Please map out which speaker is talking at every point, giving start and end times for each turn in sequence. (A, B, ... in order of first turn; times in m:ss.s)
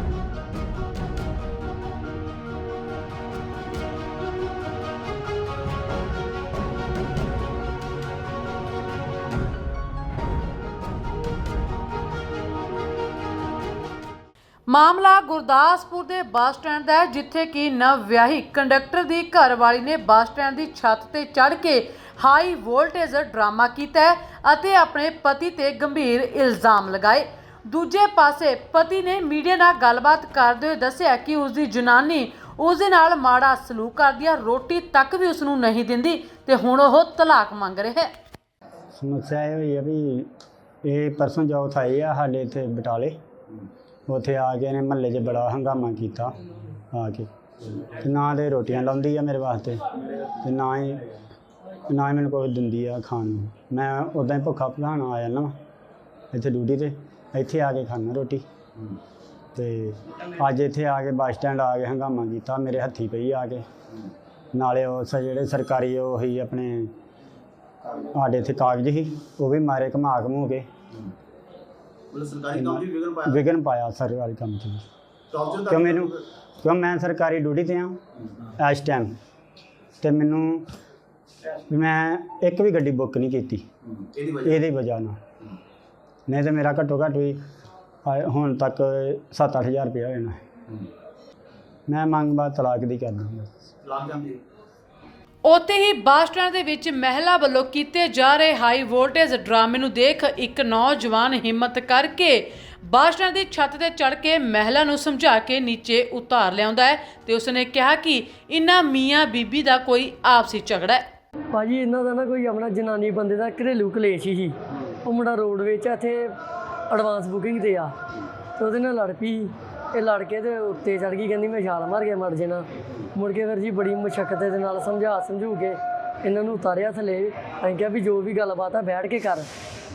0:14.7-0:38.1 A
0:38.9-0:40.3 B
0:40.8-0:43.2 B
0:44.1-0:46.4 B
0:46.9-0:49.9 B
0:50.4-0:51.1 B
0:51.9-0:55.6 B
0:56.3-0:58.4 B
0:59.5-1:03.6 B
1:04.5-1:06.9 B
1:08.0-1:10.7 B
1:12.1-1:13.4 C
1:12.5-1:14.8 B
1:15.3-1:16.1 C
1:15.6-1:18.0 B
1:18.6-1:19.2 B
1:20.0-1:20.7 B
1:21.7-1:23.7 B
1:24.0-1:24.6 C
1:24.4-1:25.2 B
1:26.3-1:27.4 B
1:28.0-1:30.4 B
1:31.9-1:33.6 B
1:33.8-1:34.4 C
1:35.4-1:51.0 A
1:51.5-1:56.3 D
1:56.9-1:57.9 D
1:58.6-2:09.5 D